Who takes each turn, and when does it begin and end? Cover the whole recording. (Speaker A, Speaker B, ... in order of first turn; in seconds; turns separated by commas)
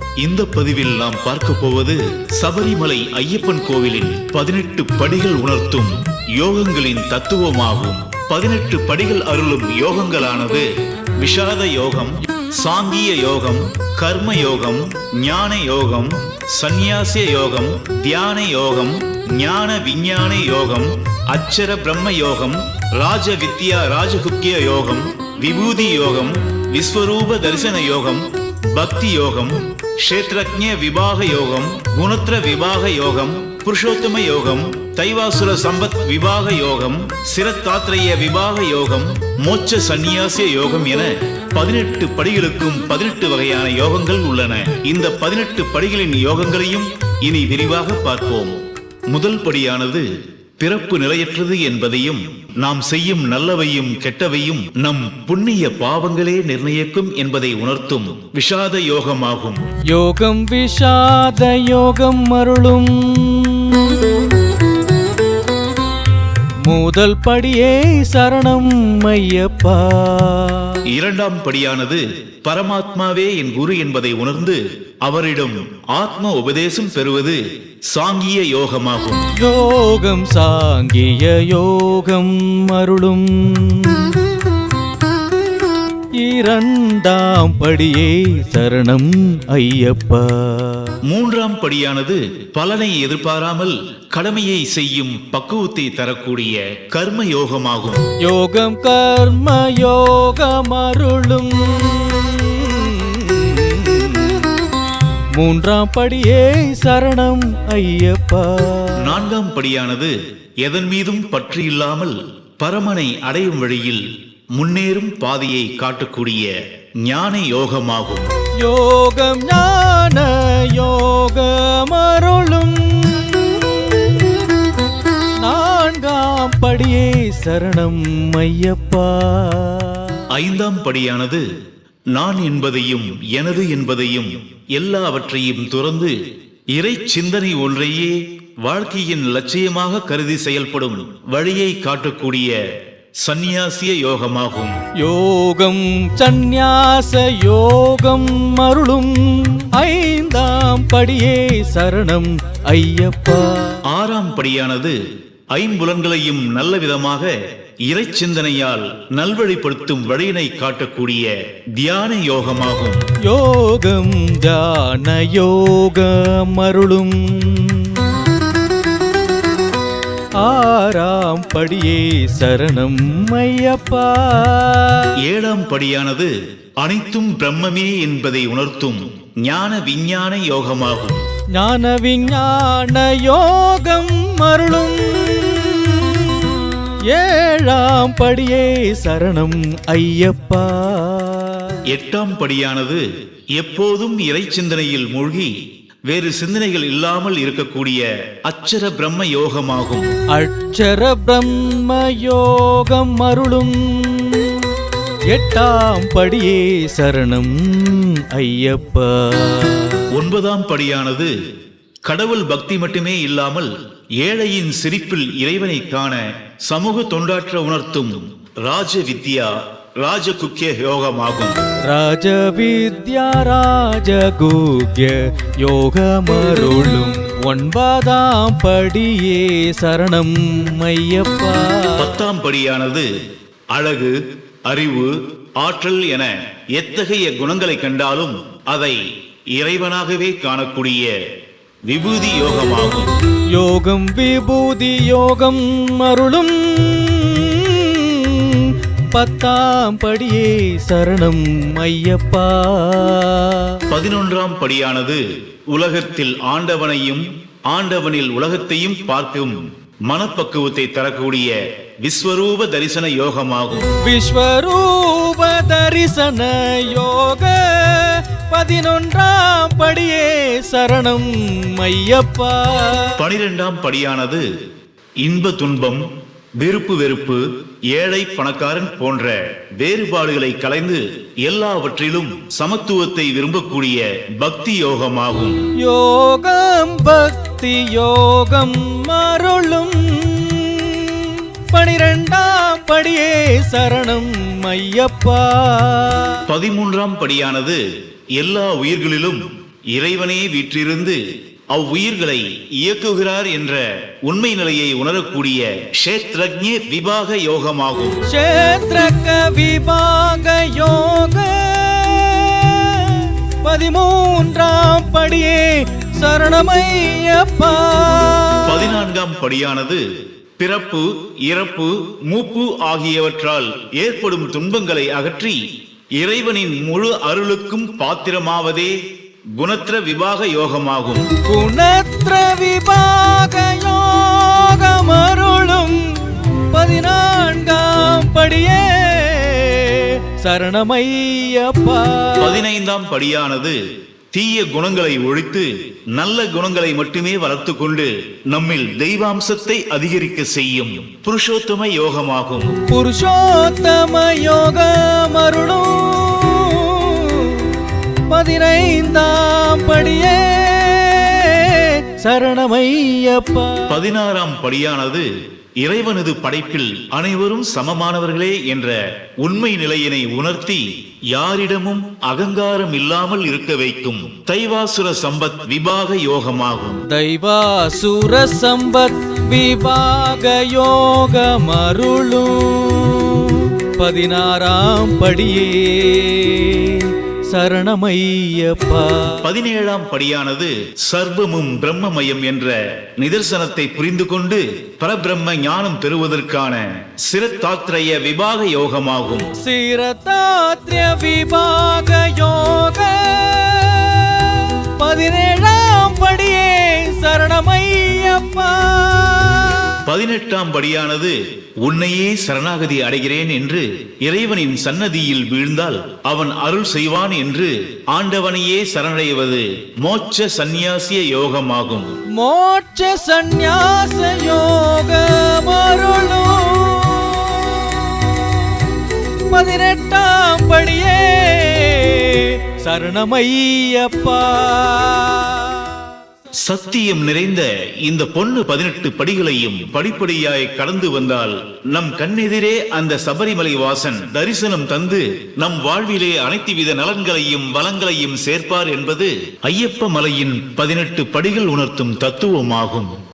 Speaker A: 0.2-48.6, Speaker A: 49.1-50.1, Speaker A: 50.6-59.6, Speaker B: 59.9-64.2, Speaker B: 66.7-70.8, Speaker A: 70.9-79.3, Speaker B: 79.3-84.3, Speaker B: 86.2-91.0, Speaker A: 91.0-98.0, Speaker B: 98.2-104.6, Speaker B: 105.3-109.2, Speaker A: 109.0-114.0, Speaker A: 114.6-116.5, Speaker A: 117.0-118.3, Speaker B: 118.6-124.5, Speaker B: 125.4-130.2, Speaker A: 130.3-131.5, Speaker A: 132.2-136.2, Speaker A: 136.7-142.6, Speaker A: 143.2-144.8, Speaker B: 145.0-153.8, Speaker A: 153.9-155.0, Speaker A: 155.5-157.3, Speaker A: 157.9-163.0, Speaker B: 163.2-168.3, Speaker B: 170.4-175.1, Speaker A: 175.2-181.2, Speaker B: 181.5-191.8, Speaker A: 191.9-193.0, Speaker A: 193.6-195.5, Speaker A: 196.1-200.1, Speaker B: 200.3-210.1, Speaker A: 210.1-211.3, Speaker A: 212.1-221.6, Speaker B: 221.9-232.2, Speaker A: 232.0-233.1, Speaker A: 233.7-234.1, Speaker A: 234.7-239.0, Speaker A: 239.5-241.1, Speaker A: 241.9-243.1, Speaker B: 243.5-253.8, Speaker A: 253.9-263.9, Speaker B: 264.0-273.2, Speaker A: 273.2-274.4, Speaker A: 275.2-276.0, Speaker A: 276.6-277.4, Speaker A: 277.9-285.6, Speaker B: 285.8-296.4, Speaker A: 296.5-297.8, Speaker A: 298.4-299.4, Speaker A: 299.9-301.2, Speaker A: 301.7-308.2, Speaker B: 308.2-318.9, Speaker A: 318.6-320.0, Speaker A: 320.6-325.6, Speaker A: 326.2-328.9, Speaker A: 329.6-331.3, Speaker B: 331.4-342.6, Speaker A: 342.4-343.8, Speaker A: 344.3-352.8, Speaker B: 352.9-364.0, Speaker A: 363.9-365.3, Speaker A: 365.8-377.0, Speaker B: 377.1-389.4, Speaker A: 389.4-399.5, Speaker B: 399.5-410.0, Speaker A: 410.0-422.1, Speaker B: 422.3-436.1, Speaker A: 436.6-453.1